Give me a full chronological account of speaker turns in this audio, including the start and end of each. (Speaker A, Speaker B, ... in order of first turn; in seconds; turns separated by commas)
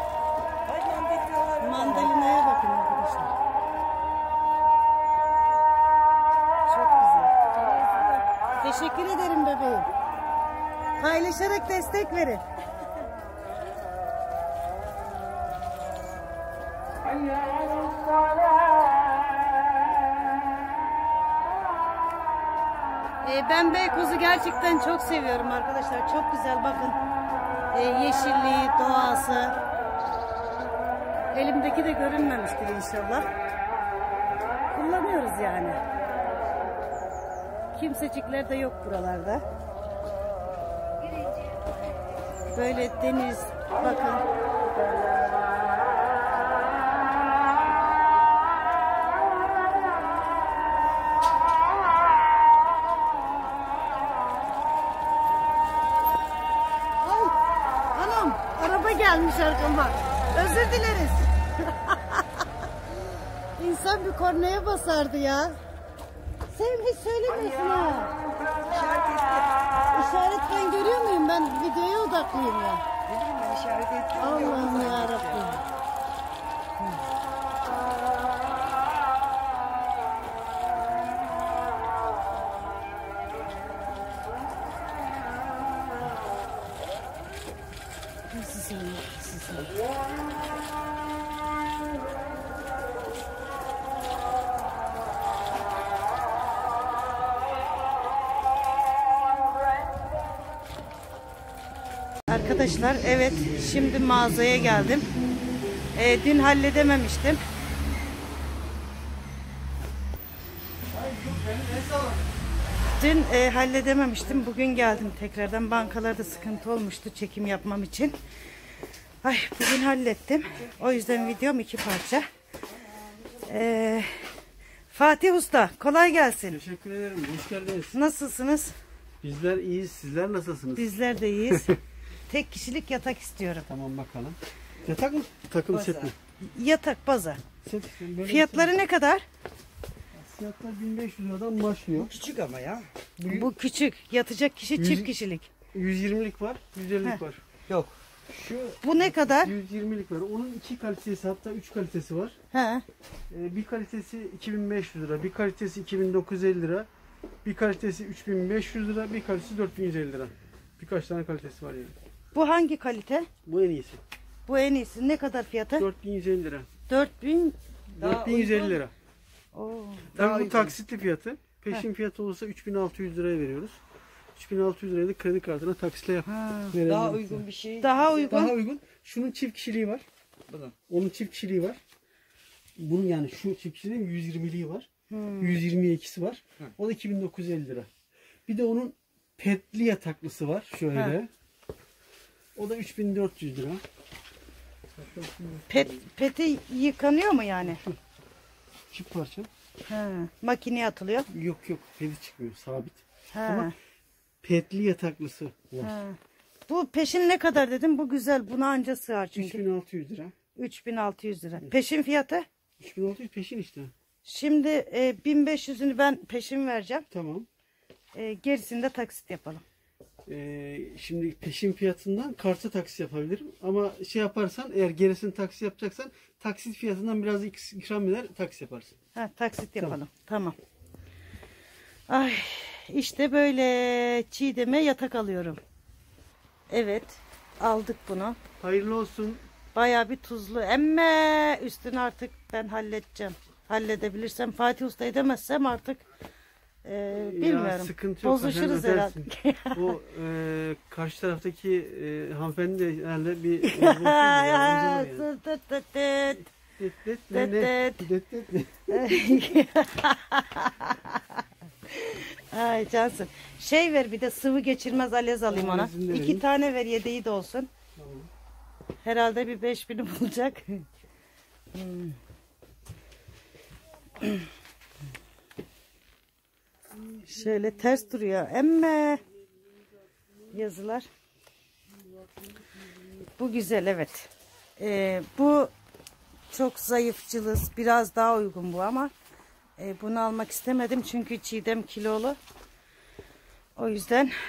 Speaker A: 0.7-2.1, Speaker B: 1.6-3.3, Speaker B: 6.7-7.3, Speaker A: 7.6-8.2, Speaker B: 8.6-9.9, Speaker B: 11.0-12.4, Speaker B: 23.2-27.0, Speaker B: 27.7-29.6, Speaker B: 31.3-33.3, Speaker B: 34.7-35.8, Speaker B: 37.7-39.4, Speaker B: 42.5-44.3, Speaker B: 57.0-57.4, Speaker B: 57.9-62.2, Speaker B: 63.6-65.6, Speaker B: 66.5-68.2, Speaker A: 68.6-69.5, Speaker B: 69.9-72.8, Speaker A: 73.1-75.5, Speaker B: 74.2-75.6, Speaker B: 88.3-89.7, Speaker B: 102.3-105.1, Speaker B: 105.9-107.4, Speaker C: 110.9-112.2, Speaker B: 113.0-118.2, Speaker B: 119.2-122.2, Speaker B: 123.5-124.3, Speaker B: 124.9-126.6, Speaker C: 126.5-128.0, Speaker B: 127.9-128.7, Speaker C: 129.2-130.9, Speaker B: 130.8-131.8, Speaker C: 131.5-131.8, Speaker B: 132.3-133.7, Speaker C: 133.7-136.2, Speaker A: 135.7-136.1, Speaker B: 136.5-137.4, Speaker C: 137.6-138.7, Speaker B: 138.2-139.2, Speaker C: 140.1-142.2, Speaker A: 142.0-142.9, Speaker C: 143.2-143.5, Speaker B: 143.3-145.5, Speaker C: 144.8-145.1, Speaker C: 145.7-147.4, Speaker A: 147.7-148.8, Speaker B: 148.8-149.5, Speaker C: 149.1-152.4, Speaker B: 152.5-152.8, Speaker C: 153.3-156.9, Speaker C: 157.4-161.9, Speaker B: 162.3-163.3, Speaker C: 163.5-164.0, Speaker B: 164.5-165.9, Speaker C: 165.8-166.7, Speaker B: 166.9-167.6, Speaker C: 167.9-168.9, Speaker A: 168.0-168.7, Speaker B: 169.5-170.1, Speaker C: 170.1-173.8, Speaker A: 170.2-170.8, Speaker C: 174.4-177.4, Speaker B: 176.3-176.8, Speaker A: 176.8-178.4, Speaker B: 177.8-178.6, Speaker C: 178.3-180.1, Speaker A: 180.5-180.8, Speaker C: 180.9-181.8, Speaker C: 182.8-184.9, Speaker B: 185.1-185.6, Speaker C: 185.4-187.9, Speaker C: 188.5-191.3, Speaker C: 192.6-193.8, Speaker C: 195.0-195.7, Speaker B: 195.7-197.8, Speaker C: 197.7-198.0, Speaker C: 198.9-199.5, Speaker B: 199.9-201.3, Speaker C: 201.3-203.7, Speaker B: 203.3-203.7, Speaker C: 204.4-205.9, Speaker B: 205.8-209.6, Speaker C: 209.3-210.3, Speaker B: 210.6-212.5, Speaker C: 212.8-213.9, Speaker B: 214.2-217.1, Speaker C: 217.1-217.5, Speaker B: 218.1-219.6, Speaker C: 220.3-228.9, Speaker B: 229.2-230.6, Speaker B: 232.1-235.6, Speaker B: 236.7-238.4, Speaker C: 238.6-239.4, Speaker B: 239.8-246.0, Speaker B: 246.8-250.0, Speaker C: 247.1-255.3, Speaker B: 253.6-256.5, Speaker C: 256.7-259.0, Speaker B: 257.3-258.1, Speaker B: 258.9-261.4, Speaker B: 262.0-267.7, Speaker C: 265.5-266.4, Speaker C: 268.0-268.3, Speaker B: 269.0-270.8, Speaker B: 271.7-272.2, Speaker B: 277.2-279.2, Speaker B: 280.5-281.1, Speaker B: 283.4-285.7, Speaker B: 286.5-289.1, Speaker B: 289.8-292.4, Speaker B: 293.8-294.3